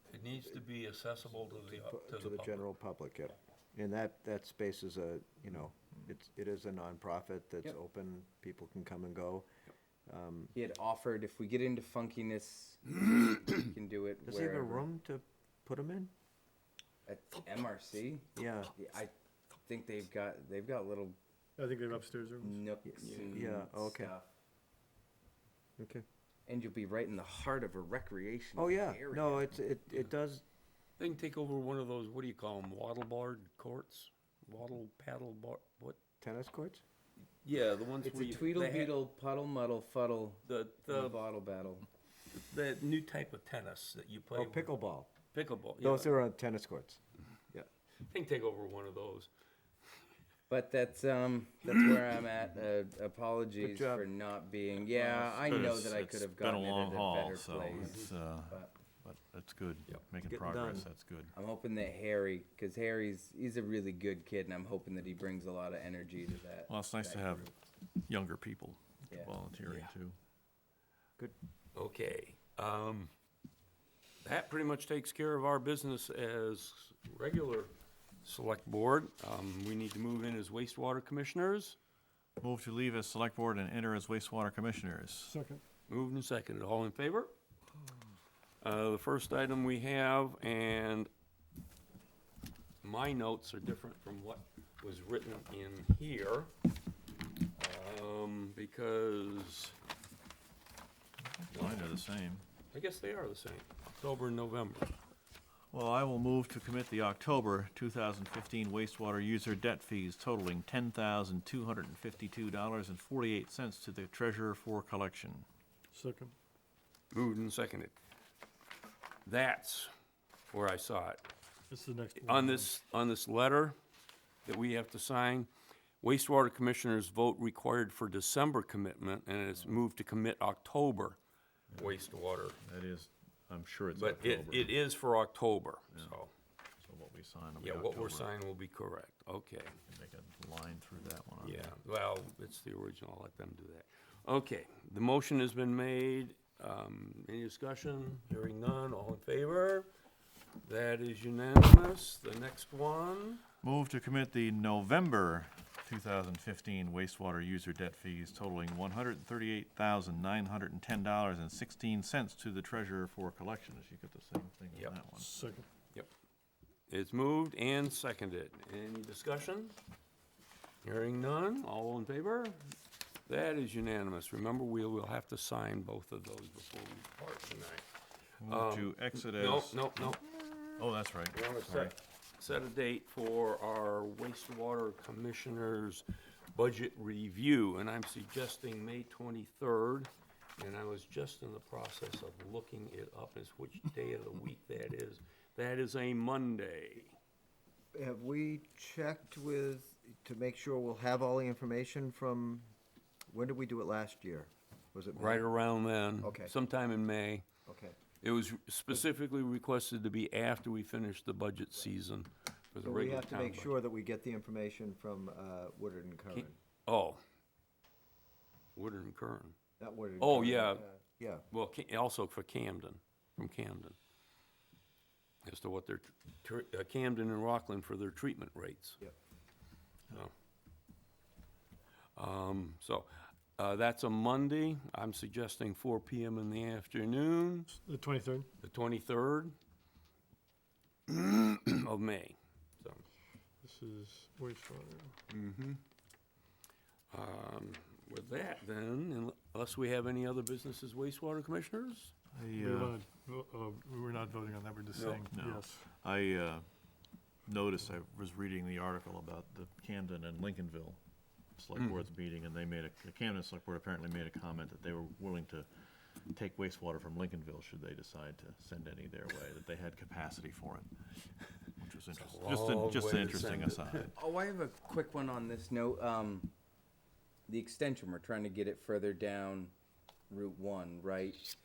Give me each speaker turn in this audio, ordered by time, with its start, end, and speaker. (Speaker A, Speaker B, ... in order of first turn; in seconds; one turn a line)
Speaker A: 0.1-2.7
Speaker B: 1.6-9.5
Speaker B: 10.1-10.6
Speaker C: 10.6-14.9
Speaker B: 14.2-16.1
Speaker C: 17.1-19.1
Speaker B: 18.4-18.7
Speaker C: 19.6-21.2
Speaker D: 21.6-22.6
Speaker C: 22.4-24.3
Speaker B: 22.9-24.1
Speaker A: 23.0-23.4
Speaker B: 25.8-26.1
Speaker C: 26.5-29.6
Speaker B: 28.6-30.4
Speaker A: 31.0-36.0
Speaker B: 36.2-36.8
Speaker A: 37.4-39.0
Speaker C: 38.0-41.9
Speaker A: 40.5-41.2
Speaker A: 42.5-44.8
Speaker B: 44.3-45.1
Speaker A: 45.3-46.1
Speaker B: 45.8-47.0
Speaker A: 48.0-49.3
Speaker C: 50.5-58.7
Speaker B: 53.6-54.1
Speaker E: 55.4-61.3
Speaker A: 55.4-55.8
Speaker A: 57.7-58.1
Speaker B: 60.2-60.9
Speaker C: 61.3-67.5
Speaker E: 66.7-67.5
Speaker E: 68.0-70.2
Speaker A: 69.7-69.9
Speaker A: 71.8-73.1
Speaker A: 74.2-77.7
Speaker A: 78.2-81.8
Speaker E: 82.4-85.3
Speaker D: 85.3-85.6
Speaker A: 85.9-87.3
Speaker A: 88.6-91.1
Speaker A: 92.8-96.5
Speaker A: 97.5-99.8
Speaker E: 101.4-102.5
Speaker A: 101.5-101.9
Speaker A: 102.7-105.0
Speaker E: 105.7-115.5
Speaker D: 115.9-116.3
Speaker A: 117.1-117.9
Speaker A: 119.2-119.9
Speaker A: 120.5-121.3
Speaker D: 121.7-122.7
Speaker A: 122.2-123.8
Speaker A: 124.5-125.5
Speaker A: 126.0-131.2
Speaker E: 131.7-132.0
Speaker A: 131.7-132.6
Speaker E: 132.6-134.7
Speaker A: 133.9-136.3
Speaker E: 136.8-138.3
Speaker A: 137.6-139.8
Speaker E: 139.9-141.7
Speaker A: 141.4-149.9
Speaker A: 150.6-153.4
Speaker E: 153.6-165.3
Speaker D: 165.2-165.7
Speaker A: 166.9-169.8
Speaker A: 170.8-172.7
Speaker A: 173.3-177.8
Speaker E: 178.4-180.2
Speaker A: 178.5-197.2
Speaker E: 180.8-181.9
Speaker B: 197.9-202.7
Speaker B: 203.3-205.4
Speaker A: 205.2-207.5
Speaker B: 206.2-206.5
Speaker B: 207.7-208.0
Speaker A: 208.2-213.7
Speaker B: 212.8-216.6
Speaker A: 216.3-217.2
Speaker A: 218.8-219.6
Speaker B: 219.8-221.4
Speaker A: 220.2-220.8
Speaker A: 221.5-224.0
Speaker A: 225.4-229.0
Speaker A: 232.2-237.7
Speaker D: 237.7-238.5
Speaker A: 238.6-239.6
Speaker A: 241.1-243.1
Speaker D: 243.6-245.2
Speaker A: 245.3-245.8
Speaker A: 247.1-252.1
Speaker E: 252.3-253.0
Speaker D: 252.6-255.8
Speaker A: 254.9-255.3
Speaker E: 255.3-256.7
Speaker E: 257.5-261.0
Speaker E: 261.5-265.7
Speaker E: 266.2-274.1
Speaker A: 272.1-274.1
Speaker C: 274.1-276.5
Speaker C: 277.5-279.7
Speaker C: 280.3-281.5